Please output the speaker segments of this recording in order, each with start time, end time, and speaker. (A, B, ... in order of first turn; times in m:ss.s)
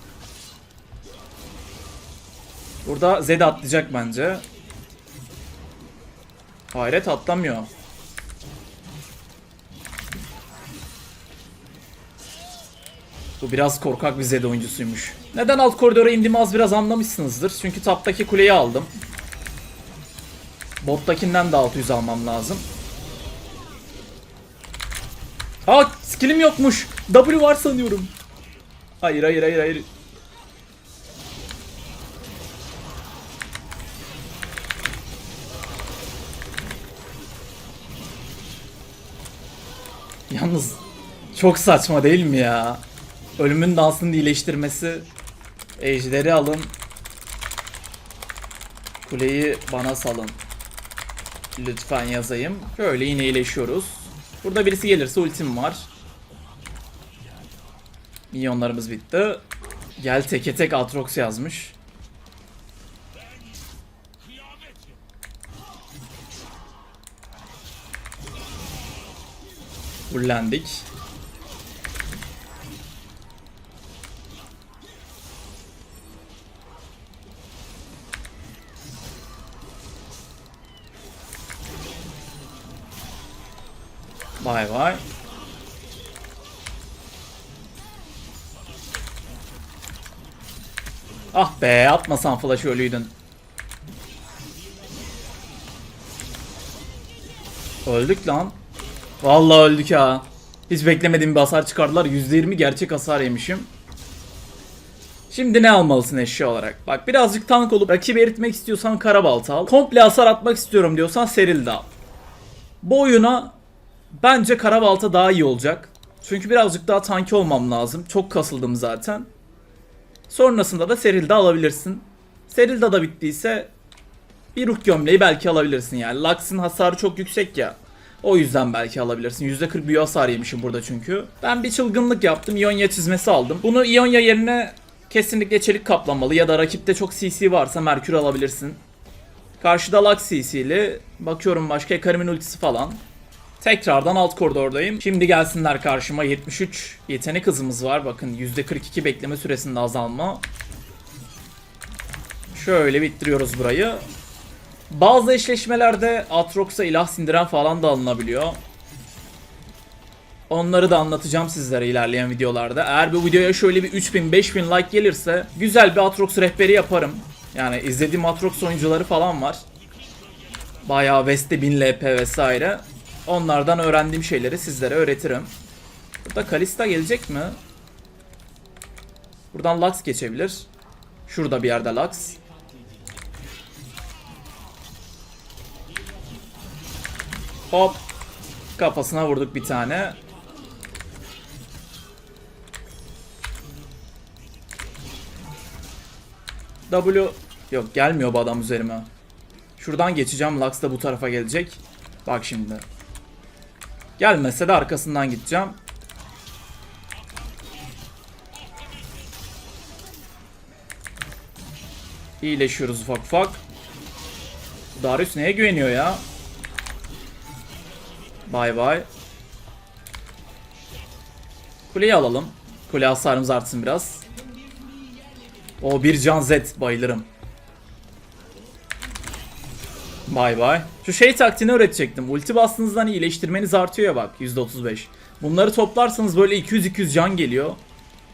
0:02.8-0:04.4 A
0:06.7-0:07.7 A
0:13.4-0:18.9 A
0:20.8-0:22.6 A
0:25.6-0:28.1 A
0:29.0-0:29.9 A
0:40.3-0:40.8 A
0:41.3-0:42.8 A
0:43.4-0:45.1 A
0:45.8-0:46.7 A
0:49.0-0:50.4 A
0:51.6-0:55.9 A
0:58.3-0:59.4 A
1:00.0-1:01.8 A
1:10.1-1:10.9 A
1:24.4-1:25.0 A
1:31.3-1:33.1 A
1:37.8-1:38.6 A
1:39.2-1:43.7 A
1:45.3-1:51.9 A
1:52.8-1:53.6 A
1:54.1-1:59.3 A
2:00.3-2:03.7 A
2:04.5-2:18.8 A
2:19.6-2:23.0 A
2:23.6-2:30.4 A
2:32.5-2:34.0 A
2:34.9-2:38.6 A
2:40.5-2:49.6 A
2:50.8-2:55.5 A
2:56.2-2:57.6 A
2:59.5-3:00.7 A
3:01.3-3:02.4 A
3:07.7-3:08.0 A
3:08.8-3:10.2 A
3:16.9-3:19.1 A
3:19.8-3:22.8 A
3:24.2-3:25.8 A
3:32.4-3:33.6 A
3:34.9-3:36.2 A
3:38.5-3:39.0 A
3:41.9-3:44.2 A
3:45.8-3:47.3 A
3:50.3-3:57.8 A